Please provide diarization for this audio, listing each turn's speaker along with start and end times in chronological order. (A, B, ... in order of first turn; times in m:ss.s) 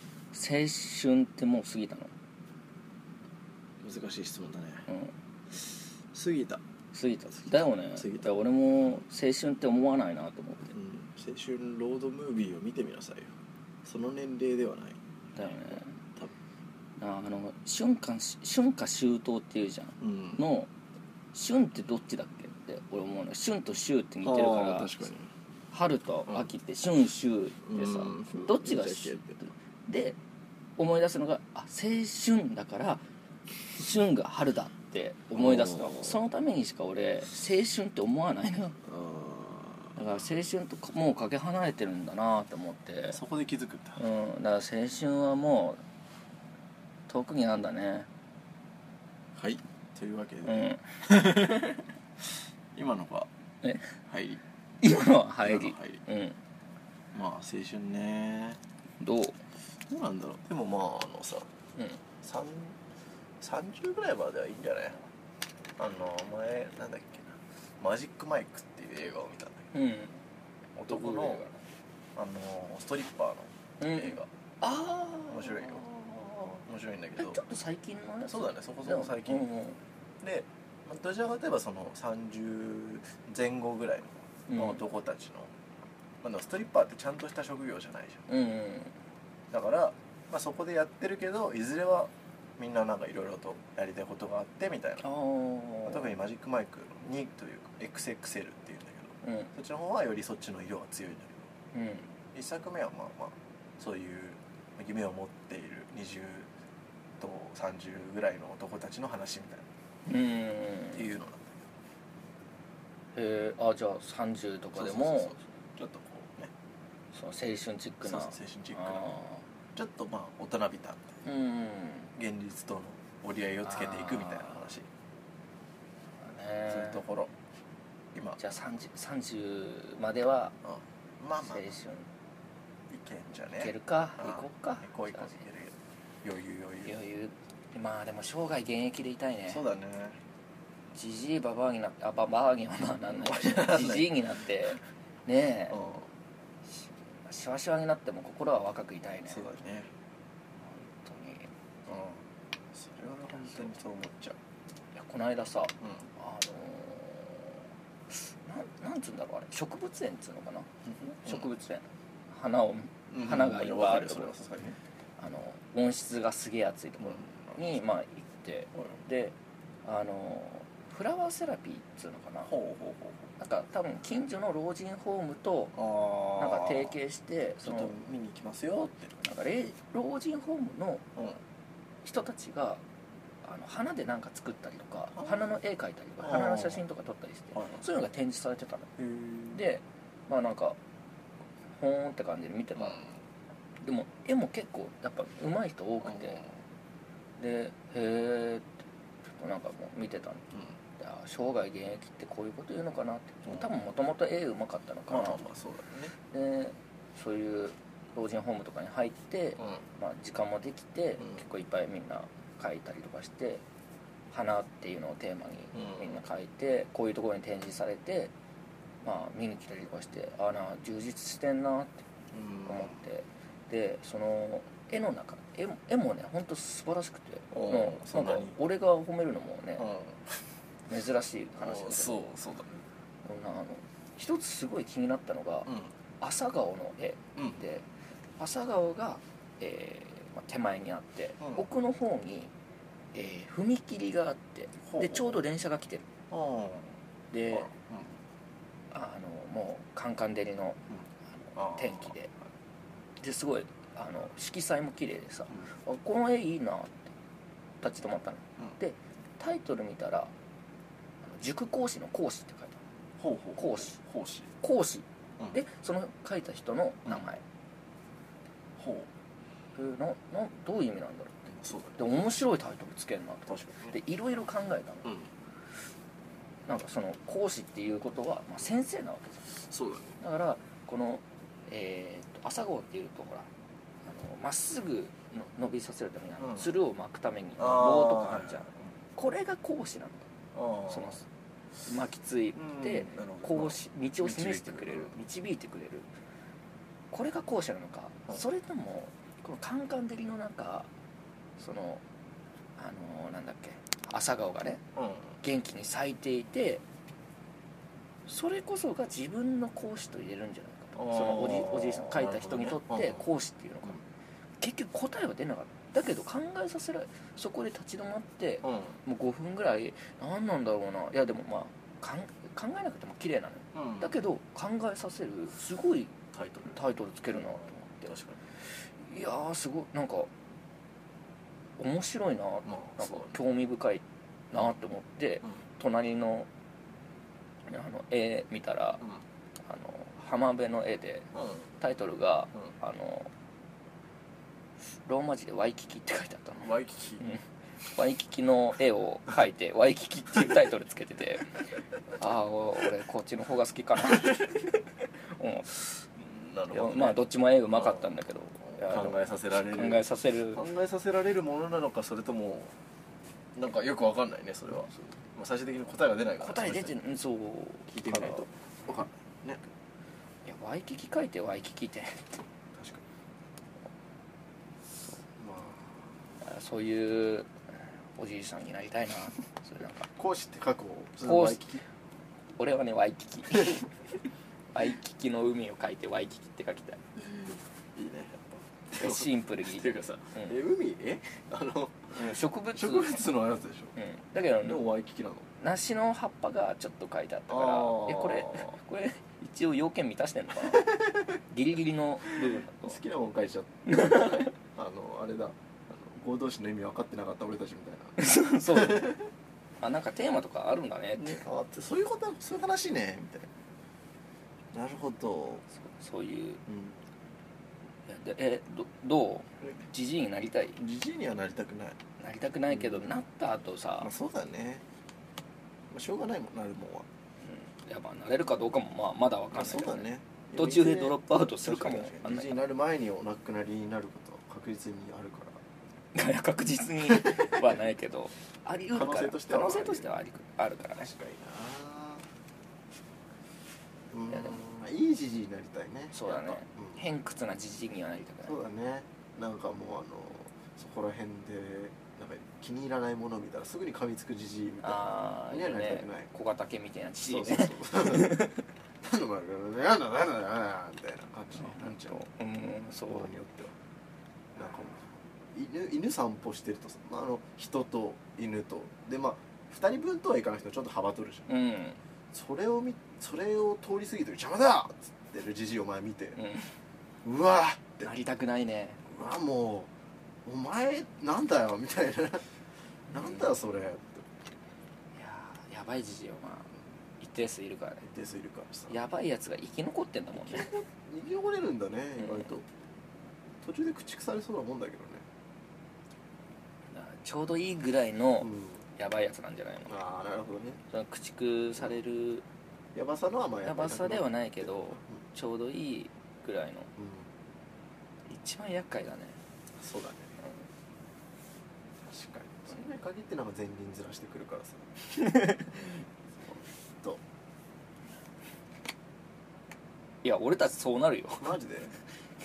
0:00.3-0:02.1 A
0:03.8-0:04.9 B
0:04.9-0:05.1 A
0:05.5-0:06.6 B
0:06.9-0:10.7 A
0:07.4-0:08.4 B
0:10.7-0:13.3 B
0:13.8-0:16.3 B
0:15.4-0:16.0 A
0:17.0-0:20.7 A
0:20.0-0:20.4 B
0:21.3-0:25.0 A
0:24.2-0:25.3 B
0:25.7-0:29.2 A
0:27.7-0:29.4 B
0:29.9-0:30.2 A
0:30.8-0:33.0 A
0:33.7-0:38.8 A
0:35.3-0:36.2 B
0:38.9-0:40.0 B
0:40.0-0:43.2 A
0:43.1-0:44.0 B
0:44.0-0:45.8 A
0:47.1-0:48.1 A
0:49.4-0:51.9 B
0:50.4-0:50.8 A
0:52.7-0:53.3 B
0:53.6-0:54.0 A
0:54.1-0:54.4 B
0:54.8-0:56.4 A
0:55.4-0:56.0 B
0:57.1-0:58.6 B
0:59.0-0:59.4 A
0:59.9-1:01.5 B
1:02.2-1:02.8 B
1:03.4-1:05.0 B
1:05.8-1:09.7 B
1:09.7-1:10.2 A
1:10.8-1:11.6 A
1:10.8-1:11.5 B
1:12.2-1:14.3 B
1:13.8-1:16.6 A
1:15.3-1:16.0 B
1:16.6-1:17.4 B
1:17.2-1:19.8 A
1:18.3-1:19.4 B
1:20.2-1:25.5 B
1:24.5-1:24.8 A
1:26.2-1:28.3 B
1:28.3-1:29.0 A
1:29.5-1:35.1 B
1:35.0-1:36.2 A
1:35.9-1:41.4 B
1:39.2-1:39.5 A
1:41.7-1:42.1 A
1:42.3-1:46.5 B
1:47.2-1:49.7 B
1:50.1-1:51.1 A
1:50.9-1:51.7 B
1:53.2-1:55.4 A
1:54.7-1:56.5 B
1:57.1-1:59.4 A
1:58.0-1:59.2 B
1:59.8-2:01.2 B
2:01.2-2:02.1 A
2:02.2-2:04.9 B
2:03.6-2:04.7 A
2:06.2-2:07.0 A
2:06.7-2:07.3 B
2:08.4-2:10.6 A
2:10.6-2:11.7 B
2:11.4-2:12.1 A
2:12.9-2:17.0 B
2:13.6-2:15.4 A
2:16.8-2:19.6 A
2:19.5-2:20.2 B
2:20.9-2:25.8 A
2:23.1-2:24.1 B
2:25.7-2:26.1 B
2:26.7-2:29.4 A
2:29.3-2:29.9 B
2:30.6-2:31.5 A
2:31.9-2:32.2 B
2:32.7-2:34.4 B
2:33.4-2:33.7 A
2:35.0-2:44.5 A
2:35.8-2:36.1 B
2:40.8-2:41.5 B
2:43.1-2:44.8 B
2:45.2-2:52.5 A
2:47.0-2:47.8 B
2:52.5-2:53.3 B
2:53.4-2:55.8 A
2:55.7-2:57.0 B
2:56.4-2:57.9 A
2:57.6-2:59.1 B
2:59.2-3:01.1 A
3:02.0-3:02.8 A
3:03.4-3:08.9 A
3:05.2-3:05.5 B
3:06.2-3:06.8 B
3:07.5-3:07.8 B
3:09.0-3:09.6 B
3:09.5-3:10.8 A
3:11.8-3:13.1 A
3:12.8-3:13.2 B
3:13.8-3:16.4 A
3:16.0-3:16.6 B
3:17.4-3:18.7 A
3:19.3-3:20.5 A
3:21.0-3:25.5 A
3:25.1-3:26.1 B
3:26.3-3:33.6 A
3:34.3-3:38.3 A
3:35.7-3:36.2 B
3:39.0-3:42.0 A
3:42.3-3:43.0 B
3:42.7-3:49.9 A
3:47.5-3:48.6 B
3:49.8-3:50.4 B
3:50.9-3:52.3 A
3:51.6-3:52.8 B
3:53.2-3:57.9 A
3:57.4-3:57.6 B
3:58.4-4:02.5 A
4:01.4-4:01.7 B
4:03.1-4:06.0 A
4:04.9-4:05.4 B
4:06.3-4:07.0 B
4:07.3-4:07.7 A
4:07.5-4:08.1 B
4:08.9-4:10.8 A
4:11.4-4:12.3 A
4:11.6-4:12.1 B
4:13.2-4:17.1 A
4:17.8-4:20.3 A
4:21.2-4:22.8 A
4:23.2-4:24.5 B
4:23.6-4:24.0 A
4:24.6-4:27.4 A
4:28.8-4:29.1 B
4:29.8-4:35.2 A
4:31.5-4:32.2 B
4:33.5-4:34.0 B
4:36.7-4:39.6 A
4:39.6-4:40.2 B
4:40.2-4:43.5 A
4:44.0-4:50.3 A
4:46.4-4:46.8 B
4:47.6-4:48.7 B
4:50.5-4:51.2 B
4:50.9-4:51.2 A
4:51.8-4:56.1 A
4:52.6-4:55.2 B
4:57.1-5:00.9 A
5:01.6-5:02.0 A
5:02.8-5:04.8 A
5:05.0-5:05.3 B
5:05.4-5:06.8 A
5:08.3-5:14.0 A
5:11.0-5:13.3 B
5:14.6-5:26.1 A
5:18.6-5:19.0 B
5:23.7-5:24.2 B
5:26.3-5:26.8 B
5:26.7-5:28.1 A
5:28.0-5:28.4 B
5:28.7-5:30.3 A
5:31.8-5:36.5 A
5:32.7-5:33.3 B
5:37.7-5:39.0 A
5:39.6-5:41.3 A
5:41.3-5:41.6 B
5:41.8-5:43.3 A
5:45.0-5:56.0 A
5:46.6-5:47.2 B
5:56.2-5:58.1 B
5:56.7-5:59.2 A
5:58.7-6:02.8 B
5:59.7-6:00.6 A
6:03.6-6:06.9 B
6:06.4-6:08.5 A
6:07.9-6:09.6 B
6:10.4-6:12.3 A
6:12.7-6:13.0 B
6:15.4-6:16.1 B
6:16.4-6:17.5 A
6:18.2-6:20.1 A
6:20.2-6:21.8 B
6:21.2-6:21.7 A
6:22.6-6:24.0 A
6:24.7-6:27.0 A
6:27.2-6:34.0 B
6:29.0-6:30.6 A
6:32.1-6:33.3 A
6:34.0-6:34.8 A
6:34.6-6:35.5 B
6:35.6-6:41.0 A
6:37.5-6:38.7 B
6:40.7-6:41.4 B
6:41.5-6:43.0 A
6:42.3-6:49.2 B
6:43.9-6:44.5 A
6:48.2-6:49.2 A
6:49.8-6:51.4 A
6:51.2-6:53.5 B
6:54.7-6:55.6 B
6:55.8-6:56.6 A
6:56.7-6:57.0 B
6:58.1-7:00.8 A
7:00.8-7:02.0 B
7:02.2-7:04.1 A
7:02.7-7:03.2 B
7:04.0-7:04.8 B
7:05.9-7:07.1 B
7:07.4-7:12.6 A
7:09.5-7:15.6 B
7:16.2-7:21.1 A
7:17.1-7:17.6 B
7:18.9-7:20.1 B
7:21.0-7:22.3 B
7:24.1-7:27.0 B
7:24.3-7:24.6 A
7:26.1-7:28.6 A
7:28.4-7:36.3 B
7:34.8-7:38.6 A
7:37.2-7:38.4 B
7:39.0-7:42.2 B
7:41.6-7:43.3 A
7:43.1-7:43.8 B
7:44.6-7:51.5 B
7:51.5-7:52.0 A
7:52.3-7:56.4 B
7:56.4-7:56.7 A
7:57.2-7:58.1 B
7:58.0-7:59.0 A
7:59.1-7:59.9 B
8:00.4-8:02.4 B
8:03.1-8:04.3 B
8:03.1-8:03.6 A
8:05.2-8:08.1 A
8:08.0-8:09.0 B
8:08.9-8:10.7 A
8:10.4-8:12.6 B
8:12.2-8:12.5 A
8:13.6-8:15.2 B
8:16.9-8:19.9 A
8:18.4-8:18.8 B
8:19.9-8:20.8 B
8:20.9-8:22.4 A
8:22.9-8:25.2 B
8:23.6-8:26.9 A
8:27.0-8:27.3 B
8:28.3-8:29.4 A
8:29.8-8:30.4 B
8:32.0-8:34.9 B
8:35.2-8:35.7 A
8:36.3-8:37.2 B
8:40.2-8:41.6 A
8:41.4-8:41.9 B